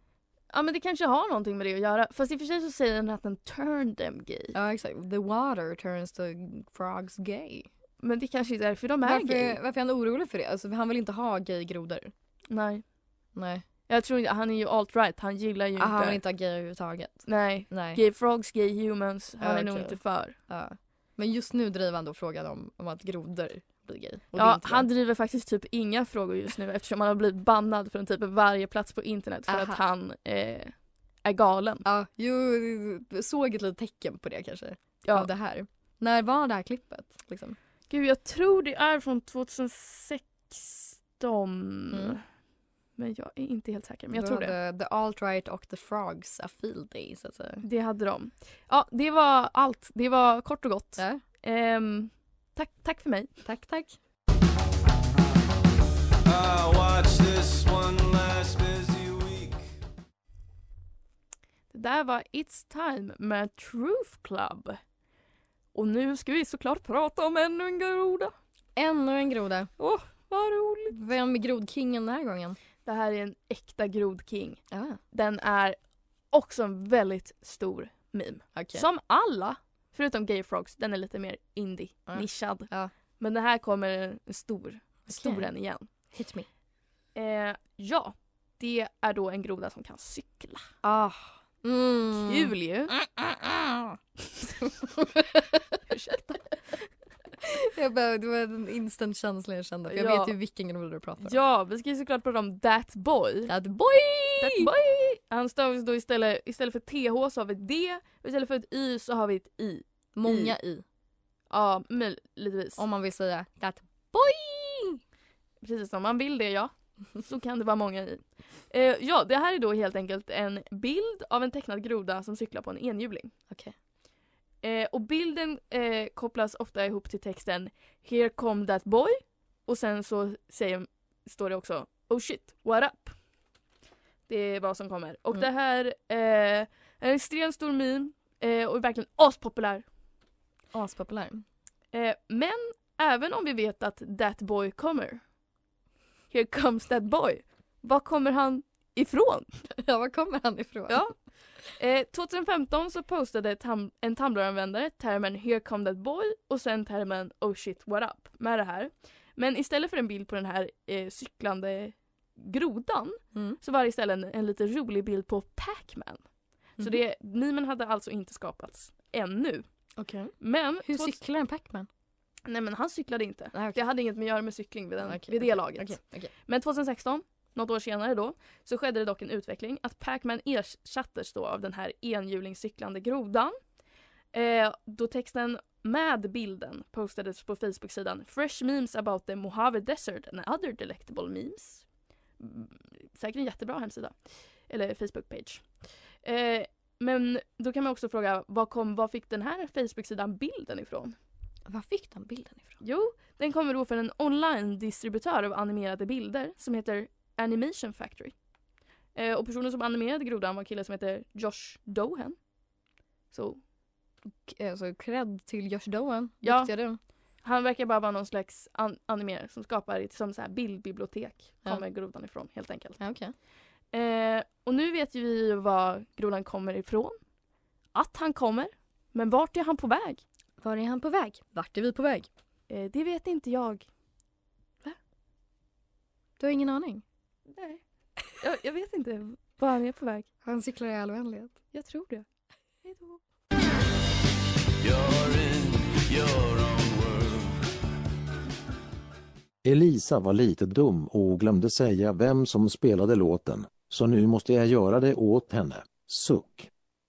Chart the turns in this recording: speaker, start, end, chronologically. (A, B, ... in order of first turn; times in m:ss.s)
0:00.5-0:04.6 A
0:04.5-0:07.7 B
0:08.0-0:09.6 A
0:09.0-0:12.1 B
0:12.5-0:13.0 A
0:13.4-0:13.6 B
0:13.9-0:16.2 A
0:15.8-0:18.0 B
0:17.3-0:20.4 A
0:19.4-0:24.9 B
0:24.3-0:31.8 A
0:29.5-0:29.8 B
0:31.8-0:37.6 B
0:35.0-0:35.3 A
0:37.9-0:42.3 A
0:41.9-0:42.2 B
0:43.0-0:44.6 A
0:44.1-0:47.6 B
0:47.6-0:53.4 A
0:51.0-0:51.2 B
0:53.4-0:54.0 B
0:56.2-0:59.7 C
1:01.7-1:04.8 A
1:05.7-1:08.3 A
1:08.8-1:09.7 B
1:09.8-1:11.0 A
1:10.9-1:12.6 B
1:12.8-1:25.9 A
1:14.7-1:15.0 B
1:18.5-1:18.9 B
1:22.1-1:22.9 B
1:25.1-1:25.5 B
1:26.0-1:26.5 B
1:27.1-1:30.8 A
1:30.8-1:34.0 B
1:32.3-1:32.9 A
1:34.6-1:35.8 B
1:35.9-1:36.9 A
1:37.4-1:41.4 B
1:39.9-1:40.4 A
1:41.2-1:43.5 A
1:43.5-1:44.7 B
1:44.4-1:50.6 A
1:50.2-1:50.8 B
1:51.5-1:52.8 A
1:52.8-1:55.0 B
1:55.6-2:03.4 A
2:03.5-2:03.8 B
2:04.6-2:13.3 A
2:14.3-2:19.9 A
2:20.7-2:21.4 B
2:21.9-2:25.3 A
2:26.3-2:29.5 A
2:29.8-2:31.2 B
2:30.9-2:51.2 A
2:43.3-2:43.6 B
2:50.0-2:51.9 B
2:52.4-3:03.8 A
2:53.5-2:53.8 B
2:55.0-2:56.3 B
3:04.3-3:21.2 A
3:21.7-3:22.8 B
3:22.8-3:28.4 A
3:29.1-3:32.5 A
3:33.3-3:33.6 A
3:34.2-3:37.0 B
3:36.4-3:43.3 A
3:43.0-3:43.4 B
3:43.9-3:47.2 A
3:47.9-3:50.2 A
3:50.6-3:52.3 B
3:52.7-3:53.9 A
3:56.4-3:57.0 B
3:57.5-4:00.3 A
4:00.4-4:01.6 B
4:01.7-4:02.3 A
4:02.8-4:03.2 A
4:04.8-4:07.6 C
4:09.6-4:16.7 D